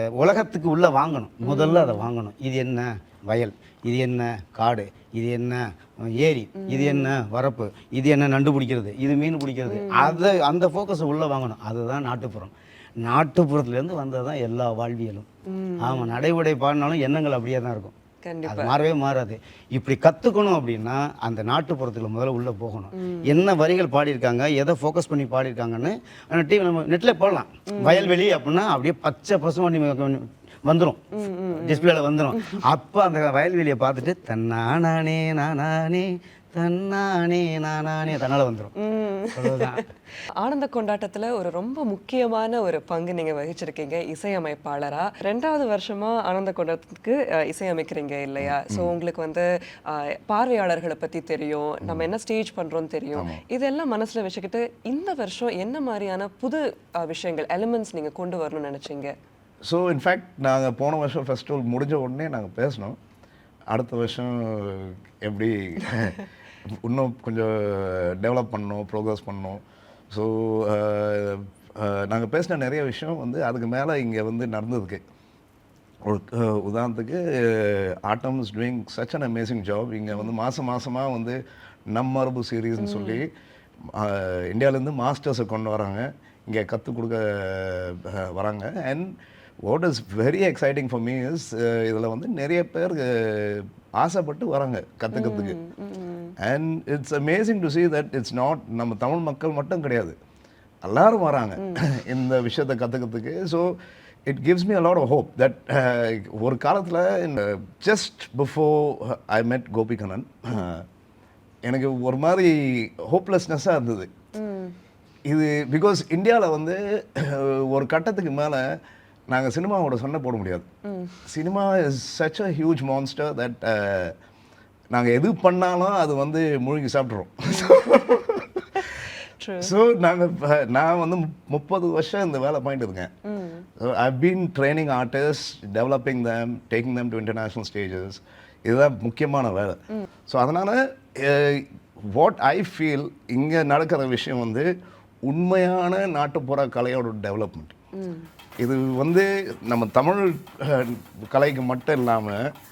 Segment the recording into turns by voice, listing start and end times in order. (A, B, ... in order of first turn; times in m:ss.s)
0:00.2-0:15.3 A
0:01.4-0:02.1 B
0:06.6-0:07.1 B
0:09.7-0:10.2 B
0:15.5-0:16.1 B
0:15.8-0:17.9 A
0:18.2-0:18.8 B
0:18.4-0:31.0 A
0:23.0-0:23.4 B
0:27.7-0:28.1 B
0:31.1-0:31.9 B
0:31.5-0:38.7 A
0:38.8-0:39.8 B
0:39.3-0:39.8 A
0:40.4-0:59.1 B
0:48.4-0:48.9 C
0:51.8-0:52.1 C
0:53.1-0:53.4 C
0:59.6-1:03.0 C
1:03.7-1:15.0 C
1:16.0-1:21.4 C
1:21.9-1:23.3 C
1:22.8-1:23.2 B
1:24.0-1:29.1 C
1:29.6-1:35.6 C
1:35.1-1:36.3 B
1:36.4-1:40.2 C
1:40.8-1:43.7 C
1:44.2-1:50.8 C
1:51.6-1:54.1 C
1:54.3-1:54.7 B
1:55.2-1:58.6 C
1:59.3-2:00.7 C
2:00.9-2:01.2 B
2:01.2-2:04.1 C
2:04.9-2:08.7 C
2:09.4-2:09.7 B
2:09.6-2:13.1 C
2:13.3-2:13.6 B
2:13.8-2:24.7 C
2:25.2-2:27.7 C
2:28.0-2:28.3 B
2:28.6-2:32.4 C